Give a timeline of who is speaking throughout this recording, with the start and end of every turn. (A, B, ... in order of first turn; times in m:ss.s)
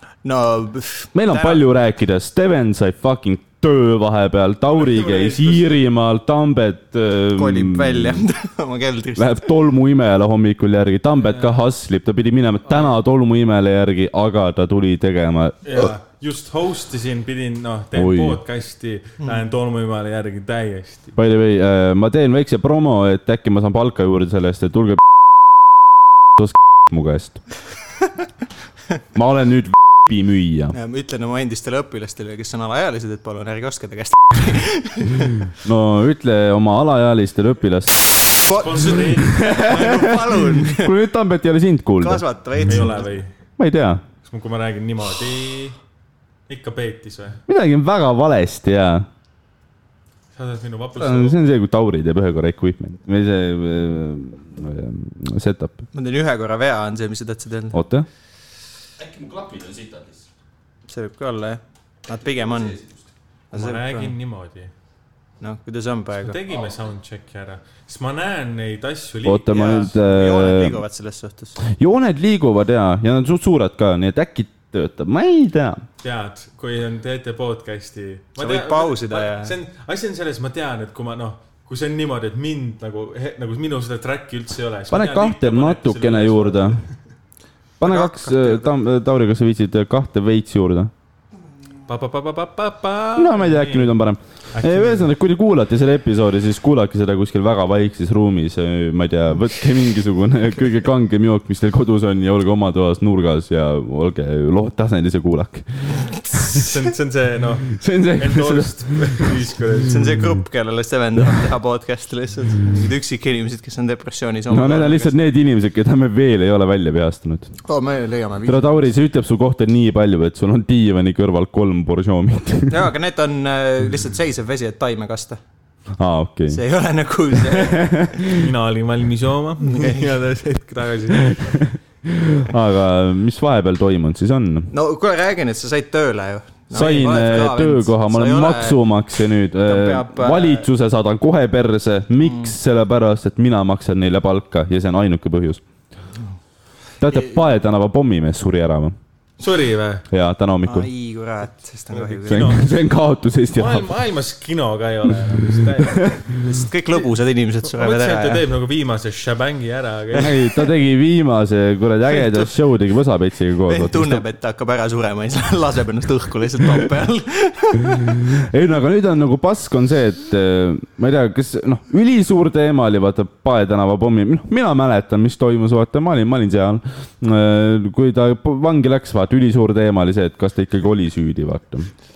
0:00.2-0:01.6 A
0:01.1-0:08.2 B
0:04.7-0:05.7 C
0:07.3-0:09.5 A
0:09.2-0:15.8 B
0:15.6-0:21.1 C
0:17.9-0:18.4 B
0:21.1-0:25.0 B
0:26.4-0:27.4 B
0:29.1-0:30.7 B
0:30.7-0:35.4 A
0:35.6-0:38.0 B
0:38.4-0:40.9 A
0:38.6-0:40.1 C
0:39.2-0:42.2 B
0:42.0-0:43.1 A
0:42.7-0:43.3 C
0:43.6-0:44.0 B
0:44.2-0:45.8 C
0:46.5-0:47.4 C
0:47.5-0:49.1 B
0:50.4-0:51.4 C
0:51.0-0:55.8 B
0:55.9-0:57.8 A
0:57.7-0:58.1 B
0:59.0-1:00.2 B
1:00.9-1:02.8 A
1:03.5-1:04.1 A
1:03.5-1:04.7 C
1:05.4-1:06.4 A
1:06.2-1:09.8 C
1:09.2-1:10.8 B
1:09.5-1:11.6 A
1:11.6-1:15.8 B
1:16.0-1:26.9 C
1:18.4-1:19.5 A
1:24.9-1:26.8 B
1:27.8-1:30.9 B
1:27.8-1:28.7 A
1:31.9-1:34.0 C
1:33.2-1:46.6 B
1:34.5-1:35.1 C
1:46.4-1:50.1 C
1:47.7-1:49.3 B
1:49.9-1:55.2 A
1:54.5-1:57.5 B
1:57.6-1:58.7 A
1:58.4-2:02.9 B
2:02.7-2:05.4 A
2:06.0-2:06.6 B
2:06.5-2:07.9 A
2:07.5-2:08.4 B
2:08.3-2:11.6 C
2:11.3-2:14.7 B
2:14.7-2:18.8 A
2:16.7-2:25.6 B
2:19.6-2:20.7 A
2:22.2-2:22.5 A
2:27.0-2:29.0 B
2:27.1-2:27.4 A
2:29.4-2:30.0 C
2:30.1-2:30.9 B
2:30.6-2:32.6 A
2:31.9-2:32.7 C
2:32.3-2:33.9 B
2:33.5-2:36.2 C
2:35.6-2:36.3 B
2:36.4-2:38.4 A
2:37.7-2:40.4 C
2:40.2-2:44.2 B
2:42.2-2:42.4 A
2:43.7-2:48.2 A
2:47.9-3:01.9 B